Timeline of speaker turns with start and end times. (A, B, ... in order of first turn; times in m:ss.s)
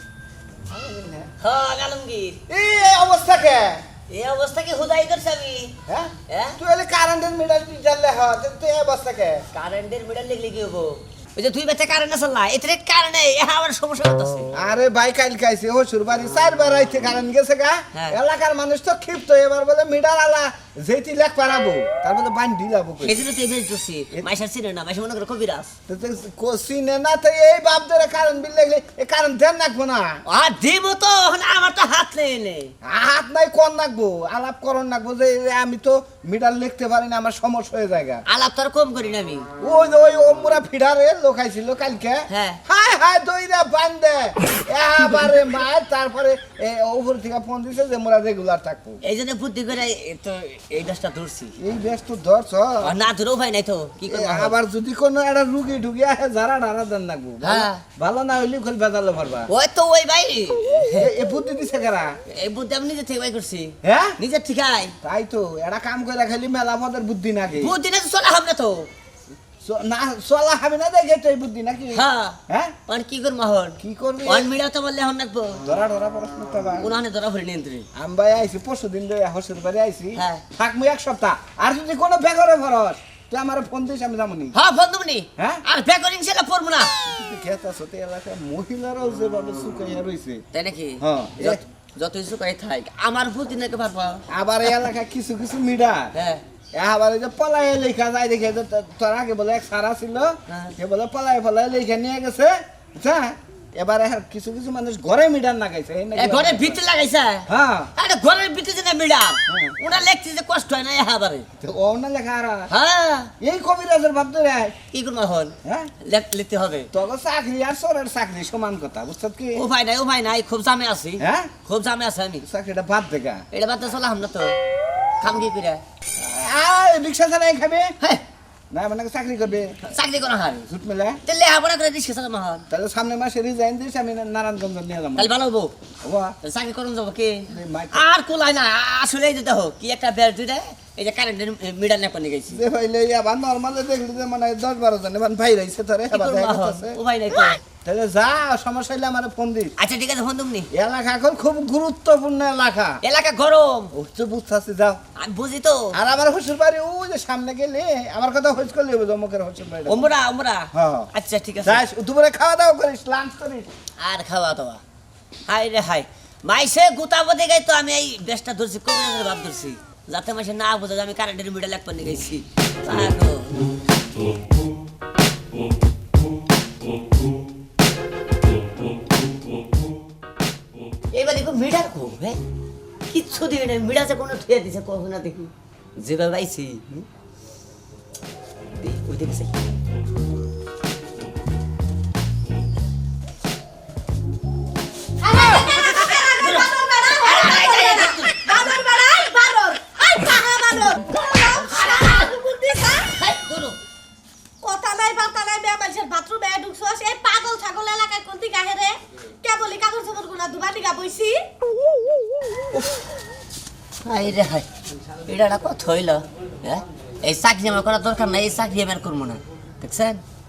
0:00.7-0:01.3 A
0:01.4-0:02.4 B
0:02.5-0:03.8 A
0:04.1-0:05.7 B
0:05.9-0:09.4 A
0:06.3-0:06.6 B
0:09.5-0:14.5 B
0:14.5-0:23.2 A
0:17.9-0:18.2 B
0:23.0-0:25.7 B
0:25.9-0:30.2 A
0:30.3-0:32.7 B
0:32.8-0:38.2 A
0:38.3-0:39.5 B
0:39.6-0:49.0 A
0:42.3-0:42.6 B
0:49.0-0:51.5 B
0:51.6-0:52.9 A
0:52.8-0:54.5 B
0:54.1-0:59.5 A
0:57.4-0:57.8 B
0:59.5-1:01.1 B
1:01.0-1:02.1 A
1:02.3-1:04.9 B
1:03.8-1:04.2 A
1:05.0-1:07.7 A
1:07.6-1:08.9 B
1:09.6-1:12.8 A
1:11.9-1:15.6 B
1:13.8-1:14.5 A
1:15.6-1:16.9 A
1:16.8-1:17.8 B
1:17.9-1:24.5 A
1:20.2-1:20.4 B
1:24.5-1:26.9 B
1:25.4-1:25.6 A
1:27.1-1:30.4 A
1:30.5-1:34.9 B
1:31.0-1:31.6 A
1:34.3-1:36.1 A
1:36.1-1:36.4 B
1:36.7-1:46.8 A
1:40.5-1:40.7 B
1:46.1-1:51.5 B
1:47.5-1:47.9 A
1:49.5-1:49.8 A
1:51.6-1:52.7 A
1:52.7-1:53.3 B
1:53.4-1:54.8 A
1:54.9-1:56.9 B
1:55.6-1:55.9 A
1:56.9-1:59.6 A
1:59.5-2:02.4 B
2:01.2-2:01.5 A
2:02.4-2:03.4 A
2:03.5-2:04.6 B
2:05.2-2:05.8 B
2:06.2-2:07.9 A
2:08.7-2:09.9 A
2:09.8-2:10.7 B
2:10.6-2:11.2 A
2:11.2-2:12.6 B
2:12.7-2:15.3 A
2:15.2-2:15.7 B
2:16.0-2:16.4 A
2:16.4-2:22.6 B
2:17.5-2:18.0 A
2:22.5-2:27.0 A
2:26.1-2:27.6 B
2:27.8-2:29.7 A
2:29.8-2:30.7 B
2:30.7-2:33.0 A
2:33.0-2:33.9 B
2:33.9-2:35.0 A
2:35.2-2:35.9 B
2:35.9-2:40.1 A
2:39.8-2:41.8 B
2:40.7-2:41.1 A
2:41.6-2:43.7 A
2:44.0-2:44.8 B
2:45.5-2:53.7 B
3:01.1-3:02.4 B
3:03.1-3:07.0 B
3:08.8-3:09.6 B
3:15.2-3:23.1 C
3:15.6-3:18.5 B
3:21.4-3:22.3 B
3:23.0-3:23.8 B
3:24.6-3:31.4 C
3:34.0-3:34.7 B
3:35.2-3:40.2 B